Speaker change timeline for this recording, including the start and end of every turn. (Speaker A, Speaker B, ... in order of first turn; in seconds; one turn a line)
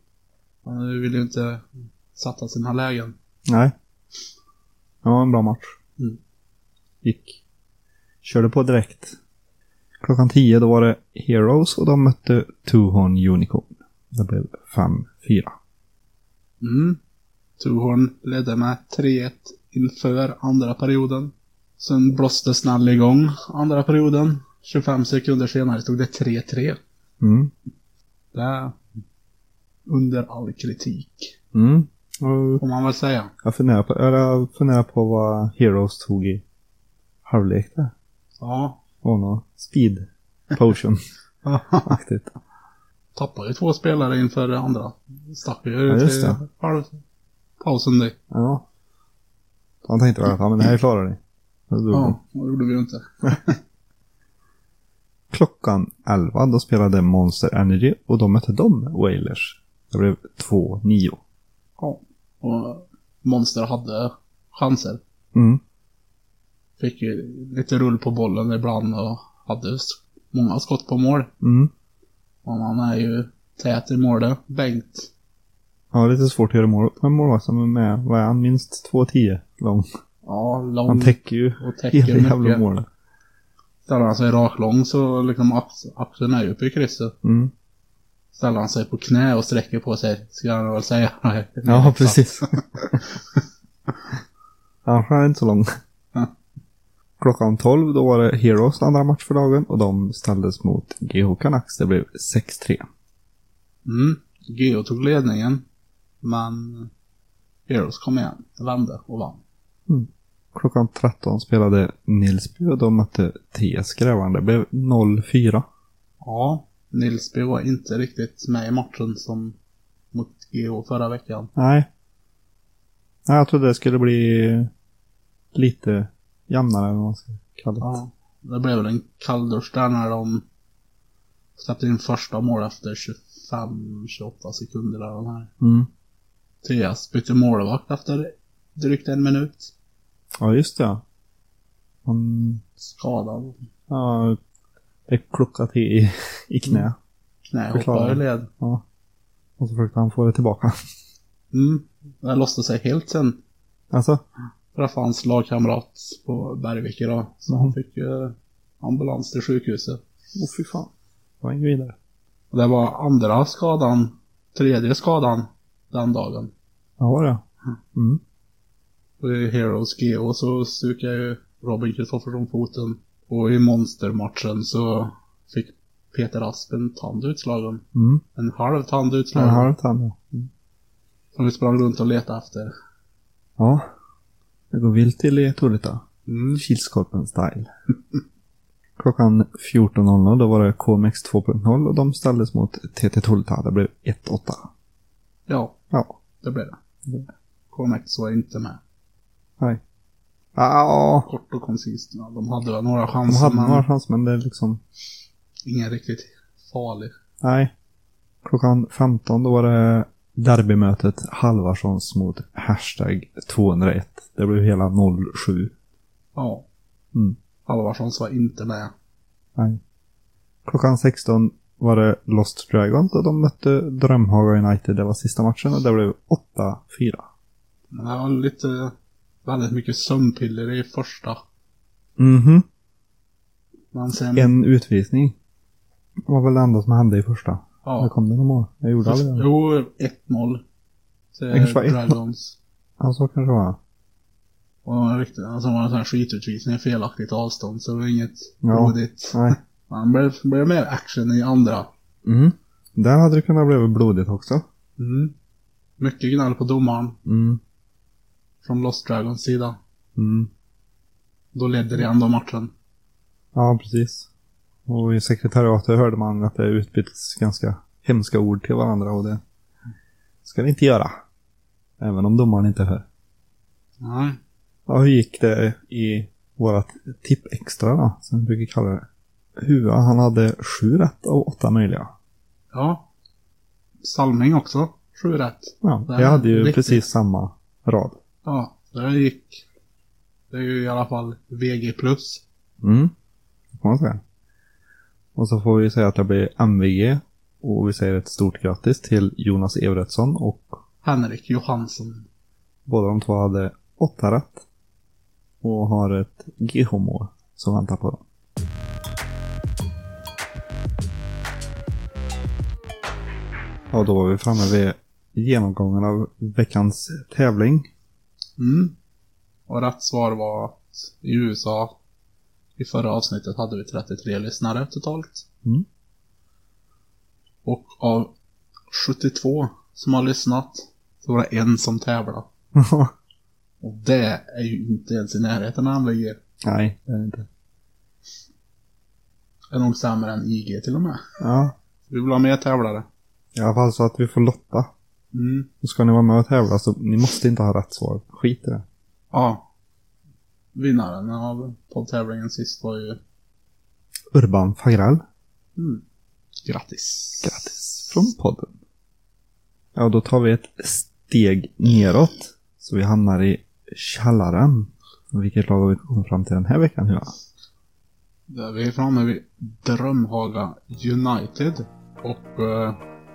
Speaker A: 0.7-3.2
Speaker B: 3.5-3.7
Speaker B: 5.0-5.7
Speaker B: 7.0-7.4
Speaker B: 8.2-9.2
Speaker B: 10.0-15.6
Speaker A: 16.6-17.0
Speaker A: 17.6-26.8
Speaker B: 27.2-27.5
Speaker A: 28.3-28.8
Speaker A: 29.9-31.4
Speaker B: 31.5-32.6
Speaker A: 32.6-33.3
Speaker B: 33.4-36.4
Speaker B: 37.2-37.9
Speaker A: 38.4-38.8
Speaker B: 39.0-41.0
Speaker A: 41.5-41.9
Speaker B: 41.8-42.4
Speaker A: 43.1-47.0
Speaker B: 45.9-46.4
Speaker A: 47.6-48.2
Speaker B: 48.3-48.6
Speaker B: 49.9-52.2
Speaker A: 51.9-53.6
Speaker B: 55.3-61.2
Speaker A: 61.8-65.0
Speaker B: 65.3-65.6
Speaker A: 66.8-71.3
Speaker B: 71.4-71.7
Speaker A: 72.5-75.1
Speaker B: 75.9-79.9
Speaker A: 80.2-82.6
Speaker B: 80.9-82.9
Speaker A: 83.9-87.2
Speaker B: 87.2-87.5
Speaker A: 88.3-93.4
Speaker B: 91.7-93.0
Speaker B: 94.9-95.7
Speaker B: 97.2-102.9
Speaker A: 103.8-105.7
Speaker A: 106.2-106.9
Speaker A: 107.7-109.4
Speaker B: 109.9-115.7
Speaker A: 116.2-119.6
Speaker A: 120.1-121.5
Speaker B: 121.5-121.9
Speaker B: 123.3-124.7
Speaker B: 125.5-128.0
Speaker A: 127.8-130.4
Speaker A: 131.6-135.5
Speaker B: 135.6-135.9
Speaker A: 136.6-139.7
Speaker B: 140.4-141.0
Speaker B: 142.1-142.7
Speaker A: 143.0-143.6
Speaker B: 143.9-144.4
Speaker B: 145.1-147.0
Speaker A: 147.5-148.5
Speaker B: 147.7-148.8
Speaker B: 149.6-150.8
Speaker A: 151.5-153.4
Speaker B: 153.9-154.2
Speaker A: 154.7-160.0
Speaker B: 160.3-160.9
Speaker B: 161.4-162.0
Speaker A: 162.5-166.5
Speaker B: 167.0-168.2
Speaker A: 169.2-177.8
Speaker B: 177.9-178.2
Speaker A: 178.4-179.7
Speaker B: 179.3-180.5
Speaker A: 181.3-182.7
Speaker B: 183.6-183.9
Speaker B: 184.7-187.7
Speaker A: 186.3-186.6
Speaker B: 189.0-194.7
Speaker A: 195.5-195.8
Speaker B: 195.9-196.2
Speaker A: 196.4-196.8
Speaker A: 197.7-198.8
Speaker B: 200.6-201.3
Speaker A: 201.3-203.8
Speaker B: 203.3-204.8
Speaker A: 205.7-207.1
Speaker B: 207.4-207.7
Speaker B: 208.4-215.7
Speaker A: 216.3-216.7
Speaker A: 217.7-218.9
Speaker B: 220.7-227.3
Speaker A: 227.9-228.9
Speaker A: 229.4-231.4
Speaker B: 232.2-232.7
Speaker A: 233.9-234.5
Speaker B: 234.3-235.4
Speaker B: 236.3-239.5
Speaker A: 237.8-238.1
Speaker A: 239.1-240.6
Speaker A: 241.3-242.6
Speaker B: 241.5-242.2
Speaker B: 243.0-243.8
Speaker A: 244.8-251.9
Speaker B: 248.6-249.6
Speaker B: 252.2-254.6
Speaker A: 255.0-255.3
Speaker A: 256.0-257.2
Speaker B: 257.3-257.6
Speaker A: 258.6-259.8
Speaker B: 260.2-260.5
Speaker A: 261.5-262.7
Speaker B: 263.6-264.3
Speaker B: 264.9-269.4
Speaker B: 270.4-271.2
Speaker B: 272.0-273.1
Speaker A: 274.0-274.4
Speaker B: 274.9-279.1
Speaker B: 279.6-282.1
Speaker A: 282.7-283.1
Speaker A: 284.0-287.0
Speaker B: 285.8-288.2
Speaker A: 288.4-289.6
Speaker A: 290.5-292.4
Speaker B: 292.8-293.1
Speaker B: 293.8-294.2
Speaker B: 295.4-300.8
Speaker A: 301.0-302.3
Speaker B: 302.9-304.7
Speaker B: 305.6-308.2
Speaker B: 313.9-317.9
Speaker A: 318.6-319.0
Speaker A: 319.7-322.0
Speaker A: 322.8-325.4
Speaker A: 327.6-328.4
Speaker A: 328.9-332.5
Speaker B: 332.8-333.1
Speaker A: 333.8-336.4
Speaker B: 336.6-337.5
Speaker A: 339.7-341.2
Speaker B: 341.4-341.7
Speaker A: 342.1-343.1
Speaker B: 343.6-344.9
Speaker A: 345.3-345.7
Speaker B: 345.8-348.9
Speaker A: 349.3-349.6
Speaker A: 350.7-353.2
Speaker B: 354.3-355.2
Speaker A: 355.8-356.0
Speaker A: 356.6-357.7
Speaker B: 357.4-358.8
Speaker B: 359.9-367.4
Speaker A: 368.5-373.0